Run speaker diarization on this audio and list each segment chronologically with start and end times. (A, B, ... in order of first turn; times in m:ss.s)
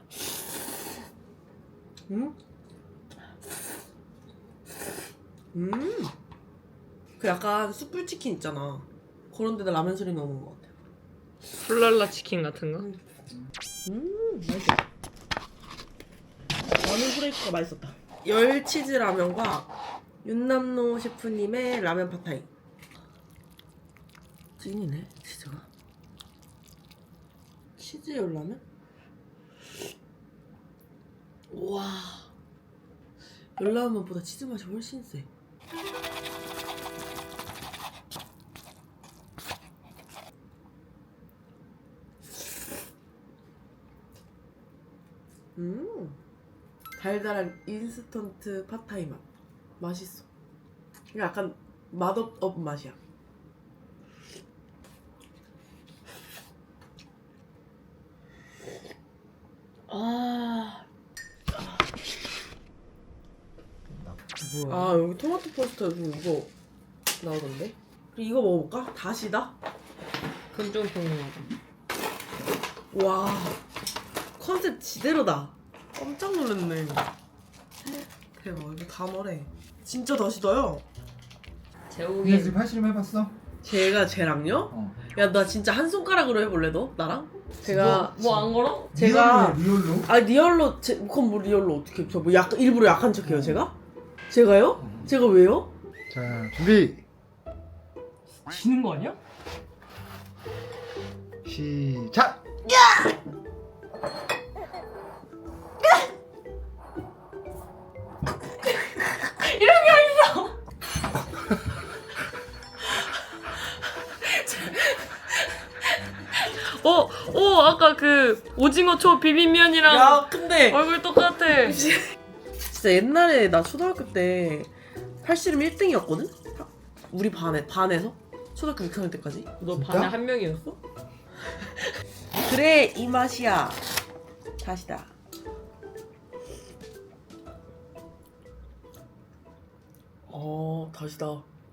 0:02.1-0:02.4 A
0:05.5-0:06.1 A
0:07.2-0:10.7 A
0:11.5-0:13.0 B
0:13.8-0:14.8 A
0:16.7-0:19.7 A
0:20.2-0:22.5 A
0:24.6-0:25.7 A
0:27.8-0:28.6 A
0:31.5-0:32.3 A
0:33.6-0:35.3 A
0:45.6-0:46.2 A
0:47.0-0:49.2 A
0:49.8-0:50.2 A
0:51.1-0:53.0 A
0:59.9-1:00.9 A
1:01.5-1:01.8 A
1:03.9-1:04.5 C
1:04.5-1:05.0 B
1:04.7-1:06.5 A
1:07.2-1:09.6 A
1:10.5-1:11.5 B
1:12.9-1:13.6 A
1:14.4-1:17.1 A
1:17.9-1:20.8 A
1:21.9-1:22.6 B
1:22.2-1:23.4 C
1:23.6-1:28.1 A
1:24.7-1:25.0 C
1:27.6-1:30.1 C
1:27.7-1:29.0 B
1:29.0-1:33.8 A
1:33.2-1:33.6 C
1:34.3-1:35.7 A
1:34.8-1:35.1 C
1:36.1-1:37.0 C
1:38.4-1:39.2 B
1:41.4-1:42.4 C
1:42.7-1:43.1 A
1:48.6-1:50.6 B
1:54.2-1:55.0 B
1:56.3-2:02.0 B
1:59.8-2:00.8 A
2:02.6-2:09.5 A
2:09.6-2:10.8 B
2:09.7-2:10.1 C
2:12.4-2:13.8 A
2:14.6-2:15.1 A
2:20.3-2:21.5 A